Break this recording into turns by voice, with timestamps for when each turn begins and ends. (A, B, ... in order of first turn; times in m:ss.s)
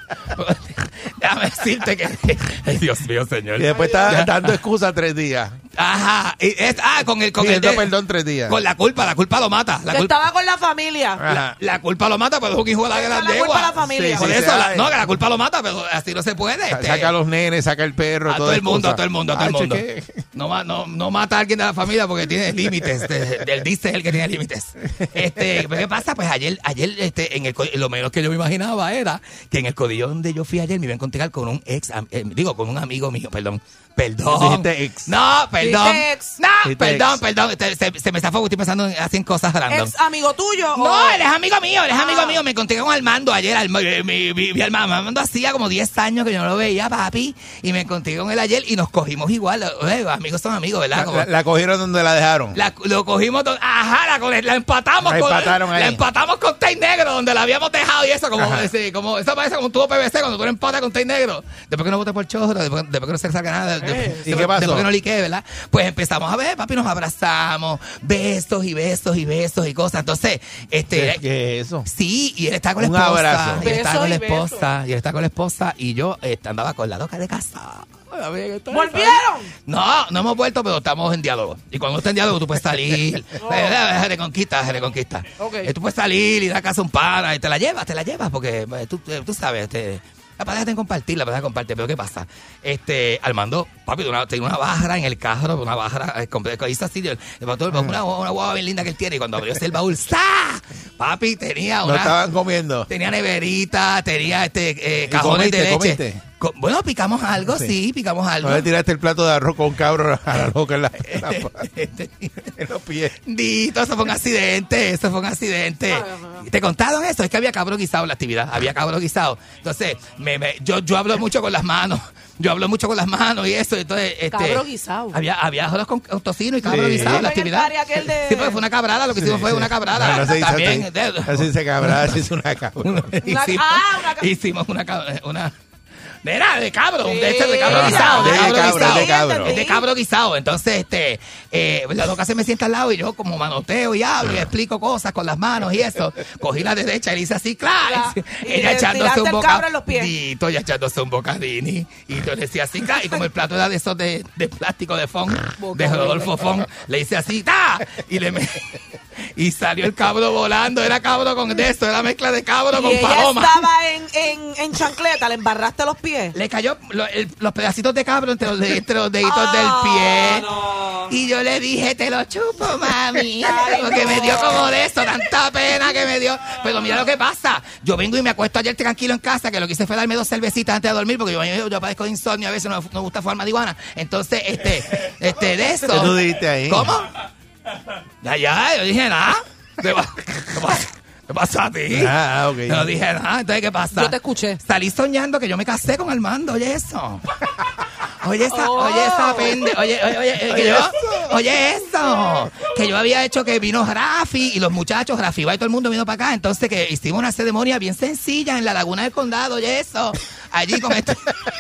0:00.3-0:03.6 A
0:03.6-0:05.6 B
0:05.7-0:07.9 A
0:07.4-0:08.6 B
0:08.5-0:10.1 A
0:09.9-0:11.2 C
0:11.2-0:11.5 B
0:11.3-0:17.1 A
0:12.9-0:14.4 C
0:13.8-0:15.0 B
0:16.7-0:20.2 B
0:18.3-0:19.8 A
0:20.3-0:39.9 A
0:24.9-0:25.8 B
0:34.3-0:35.1 B
0:35.6-0:36.4 C
0:36.6-0:37.2 B
0:39.7-0:41.2 C
0:40.7-0:51.3 A
0:41.9-0:42.4 C
0:50.9-0:52.6 B
0:52.5-1:11.2 A
0:55.0-0:56.0 B
0:58.4-0:58.7 B
1:03.8-1:04.3 C
1:04.2-1:04.9 B
1:10.9-1:11.9 B
1:11.8-1:19.0 A
1:12.8-1:13.6 B
1:13.6-1:14.7 C
1:18.7-1:19.5 C
1:19.6-1:42.2 A
1:23.4-1:23.8 C
1:25.4-1:25.7 C
1:37.7-1:38.0 B
1:41.8-1:42.9 B
1:42.9-1:48.7 A
1:45.0-1:46.2 B
1:47.4-1:47.7 B
1:48.4-1:51.6 B
1:51.1-1:52.4 A
1:52.5-1:53.2 B
1:53.2-2:12.2 A
1:55.9-1:56.4 C
2:04.3-2:05.2 C
2:06.6-2:07.3 B
2:06.8-2:08.6 C
2:09.1-2:13.2 B
2:12.8-2:15.5 A
2:13.2-2:14.3 C
2:16.2-2:38.6 A
2:17.0-2:19.8 C
2:17.7-2:19.6 B
2:24.2-2:24.5 B
2:27.8-2:30.1 C
2:35.6-2:36.3 C
2:39.4-2:43.6 A
2:42.7-2:46.3 C
2:46.3-2:50.5 A
2:49.2-2:50.9 C
2:51.1-3:07.1 A
2:53.4-2:54.7 C
3:05.9-3:07.0 B
3:08.2-3:12.2 A
3:11.9-3:12.9 B
3:12.7-3:17.2 A
3:13.9-3:14.6 C
3:18.2-3:31.2 A
3:18.5-3:19.6 C
3:20.5-3:21.2 B